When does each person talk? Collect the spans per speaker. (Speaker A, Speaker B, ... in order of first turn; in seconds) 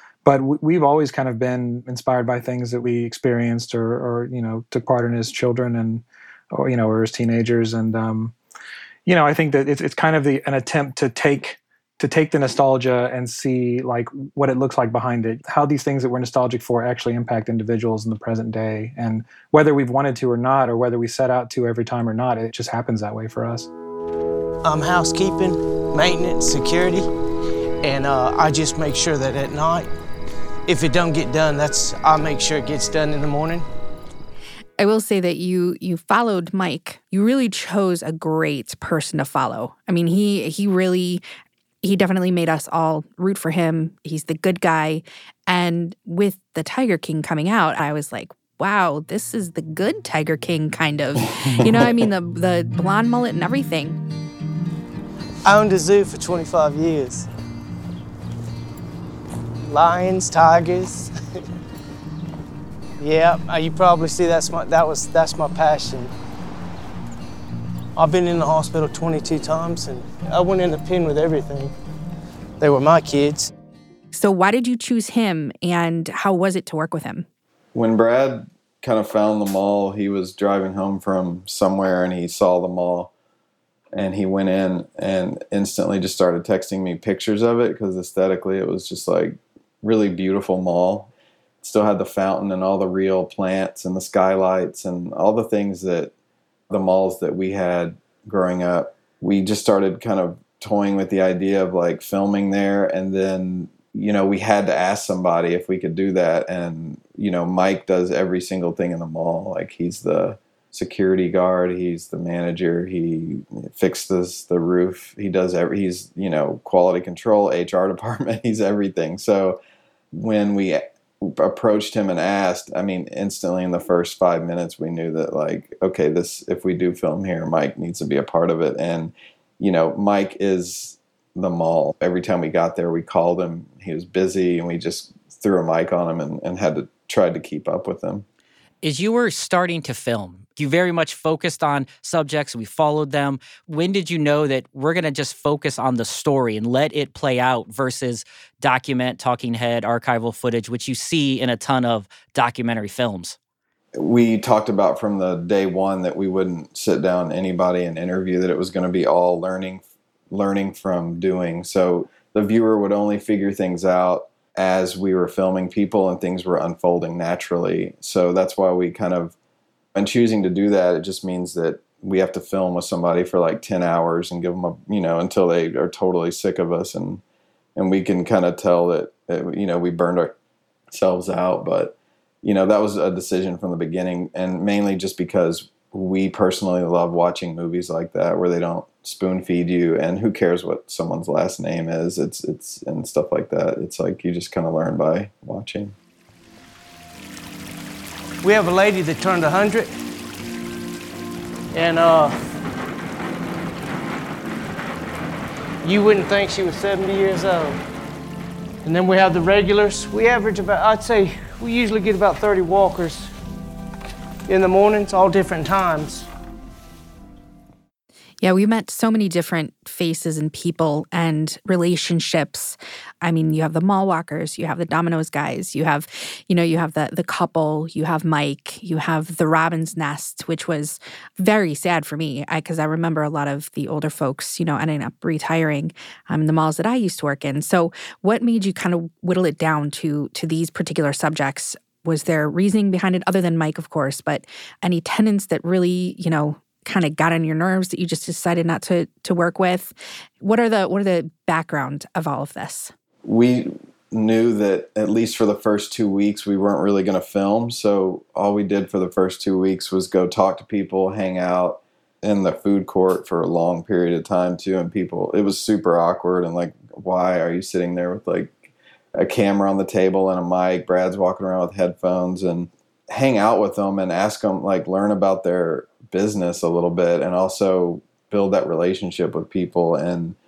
Speaker A: 0.2-8.3, 9.1-23.7
Speaker B: 24.6-27.1, 27.8-29.9, 30.7-33.7, 55.5-57.3, 59.6-61.4, 63.0-66.1, 68.0-71.7, 72.6-73.5, 198.4-199.9, 201.7-202.4, 205.8-207.8, 208.8-213.3, 214.5-216.3
Speaker C: 34.8-41.2, 41.8-54.0, 74.1-77.3, 218.4-252.9
Speaker D: 51.4-51.9, 77.8-83.1, 83.9-91.1, 91.6-96.1, 96.7-119.6, 120.1-138.2, 153.9-169.3, 169.9-177.2, 177.8-180.3, 180.9-195.9, 253.2-280.4
Speaker E: 138.8-153.4